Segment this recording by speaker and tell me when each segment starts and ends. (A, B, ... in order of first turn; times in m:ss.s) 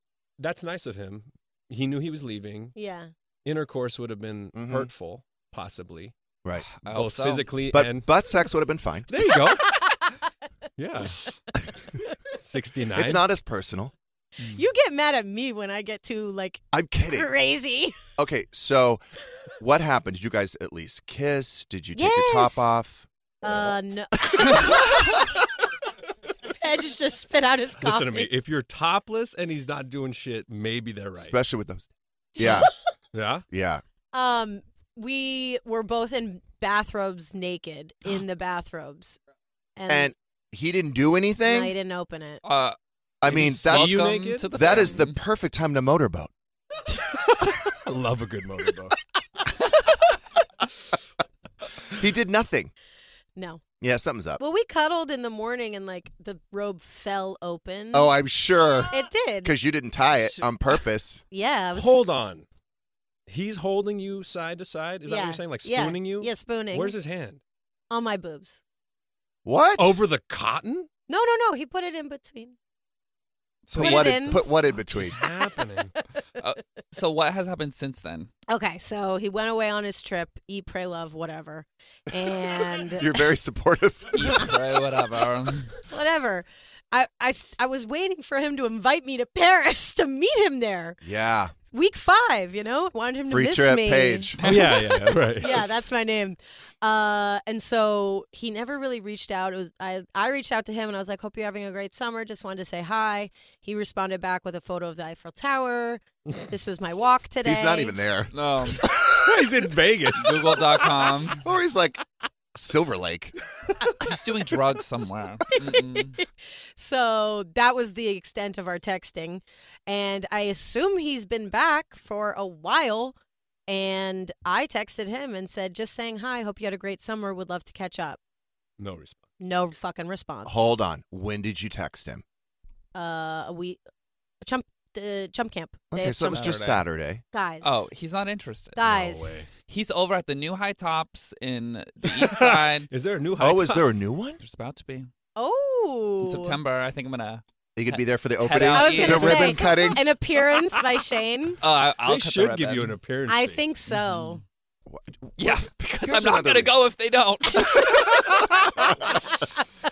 0:00.4-0:02.8 A
0:02.8-0:03.1 B
0:03.4-0:06.1 A
0:04.5-0:04.9 C
0:06.7-0:07.6 D
0:06.9-0:08.1 A
0:07.7-0:09.1 C
0:09.1-0:10.1 A
0:10.8-0:11.4 A
0:12.3-0:13.3 A
0:12.9-0:13.9 C
0:14.4-0:18.0 B
0:16.7-0:17.3 C
0:18.2-0:19.0 C
0:19.6-0:23.7 C
0:22.0-0:22.8 B
0:23.4-0:25.2 B
0:26.4-0:28.3 B
0:27.8-0:31.4 A
0:31.2-0:32.7 C
0:32.4-0:32.7 B
0:33.1-0:33.5 A
0:33.5-0:33.8 C
0:34.1-0:39.2 B
0:39.8-0:40.1 B
0:39.9-0:41.8 C
0:41.4-0:42.4 B
0:42.4-0:45.2 D
0:43.2-0:46.3 C
0:43.3-0:44.9 A
0:47.6-0:49.0 A
0:51.9-0:52.7 C
0:53.4-0:53.6 B
0:53.8-0:54.4 C
0:54.4-0:58.2 B
0:57.9-1:01.2 C
0:58.9-0:59.6 B
1:01.3-1:02.1 B
1:01.7-1:02.5 A
1:03.3-1:07.4 A
1:05.1-1:07.0 B
1:07.9-1:08.6 B
1:09.4-1:10.0 C
1:09.8-1:10.9 A
1:11.1-1:12.6 B
1:13.7-1:14.4 D
1:13.7-1:15.2 C
1:13.8-1:14.4 B
1:14.8-1:16.0 A
1:16.4-1:18.3 D
1:18.5-1:23.2 B
1:22.7-1:24.5 C
1:24.1-1:25.8 D
1:25.9-1:31.0 B
1:31.0-1:31.5 C
1:31.7-1:34.4 B
1:33.3-1:34.7 C
1:34.4-1:35.2 D
1:34.4-1:35.7 A
1:35.1-1:48.0 B
1:47.4-1:49.1 C
1:48.3-1:48.9 D
1:48.9-1:51.2 A
1:50.1-1:51.4 D
1:51.4-1:52.0 C
1:52.5-1:53.4 C
1:54.0-1:56.2 D
1:55.6-1:56.2 B
1:56.8-2:03.2 B
2:03.7-2:08.2 B
2:08.8-2:09.2 A
2:09.4-2:10.7 B
2:10.4-2:12.2 C
2:12.9-2:13.8 B
2:14.4-2:16.5 B
2:15.9-2:17.2 C
2:16.2-2:16.8 D
2:17.3-2:17.9 B
2:17.6-2:18.8 D
2:18.8-2:19.5 B
2:18.8-2:19.5 A
2:19.5-2:22.9 D
2:22.0-2:24.0 A
2:23.4-2:24.4 C
2:24.4-2:25.1 D
2:25.4-2:26.6 B
2:26.2-2:29.6 D
2:27.8-2:30.0 C
2:28.7-2:31.6 B
2:31.6-2:33.0 D
2:31.8-2:33.6 A
2:33.3-2:34.4 B
2:33.9-2:34.4 D
2:34.9-2:36.8 C
2:35.4-2:39.1 D
2:37.6-2:38.0 B